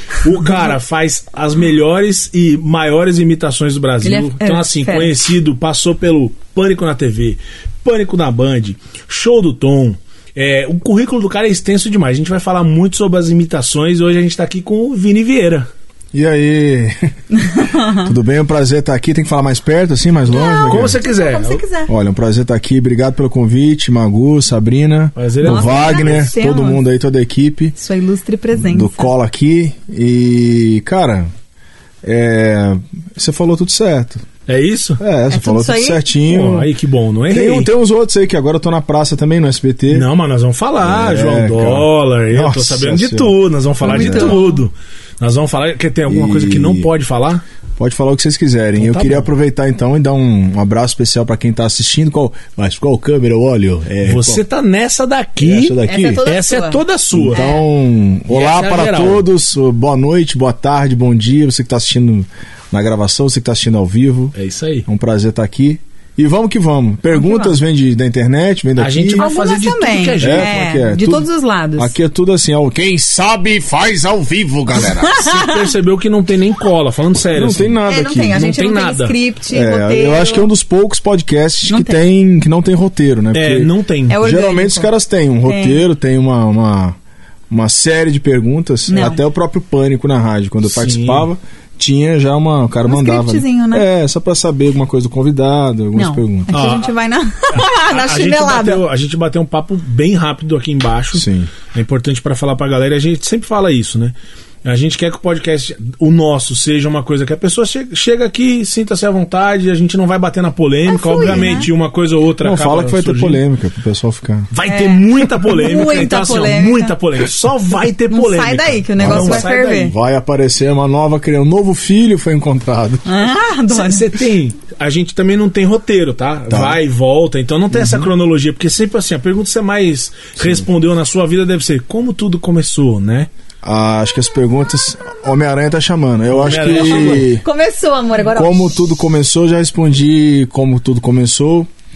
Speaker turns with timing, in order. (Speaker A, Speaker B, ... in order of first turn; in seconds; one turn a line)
Speaker A: 0.2-15.7
Speaker B: 4.0-5.2
Speaker C: 16.1-17.1
Speaker B: 17.4-18.1
Speaker C: 17.9-21.0
Speaker B: 20.3-21.9
Speaker A: 20.7-21.6
Speaker C: 21.9-27.8
Speaker A: 25.2-26.3
Speaker B: 25.4-26.9
Speaker B: 27.8-29.1
Speaker C: 28.6-31.3
Speaker C: 32.0-34.3
Speaker A: 34.5-35.0
Speaker C: 35.0-36.7
Speaker B: 35.3-36.0
Speaker A: 36.3-37.7
Speaker C: 37.3-40.1
Speaker A: 39.9-47.4
Speaker C: 40.8-44.4
Speaker B: 43.8-44.6
Speaker C: 46.1-46.9
Speaker C: 47.8-54.4
Speaker A: 48.8-49.3
Speaker A: 54.0-57.4
Speaker C: 55.4-56.2
Speaker B: 55.9-56.8
Speaker C: 57.1-64.3
Speaker B: 57.3-57.6
Speaker A: 58.3-59.3
Speaker A: 64.4-64.9
Speaker C: 64.9-69.3
Speaker B: 67.1-67.6
Speaker A: 68.8-70.6
Speaker B: 69.2-72.0
Speaker C: 70.2-75.2
Speaker B: 74.8-75.6
Speaker A: 75.2-79.2
Speaker C: 77.3-78.4
Speaker B: 77.9-80.5
Speaker C: 79.5-87.0
Speaker B: 81.7-82.0
Speaker A: 83.3-84.2
Speaker B: 84.1-84.9
Speaker B: 85.5-85.8
Speaker C: 87.5-96.5
Speaker B: 88.9-89.2
Speaker A: 90.7-91.3
Speaker B: 92.9-93.9
Speaker B: 96.0-98.9
Speaker A: 96.5-96.9
Speaker A: 97.5-113.4
Speaker C: 101.1-101.5
Speaker B: 110.9-111.7
Speaker C: 112.4-114.5
Speaker A: 114.5-119.9
Speaker B: 114.7-117.0
Speaker B: 118.1-119.9
Speaker C: 119.0-123.2
Speaker B: 123.0-124.0
Speaker A: 123.7-133.3
Speaker C: 126.5-126.8
Speaker C: 127.7-128.1
Speaker C: 130.4-130.7
Speaker C: 133.6-137.4
Speaker A: 136.3-137.3
Speaker B: 136.7-138.8
Speaker C: 138.3-141.7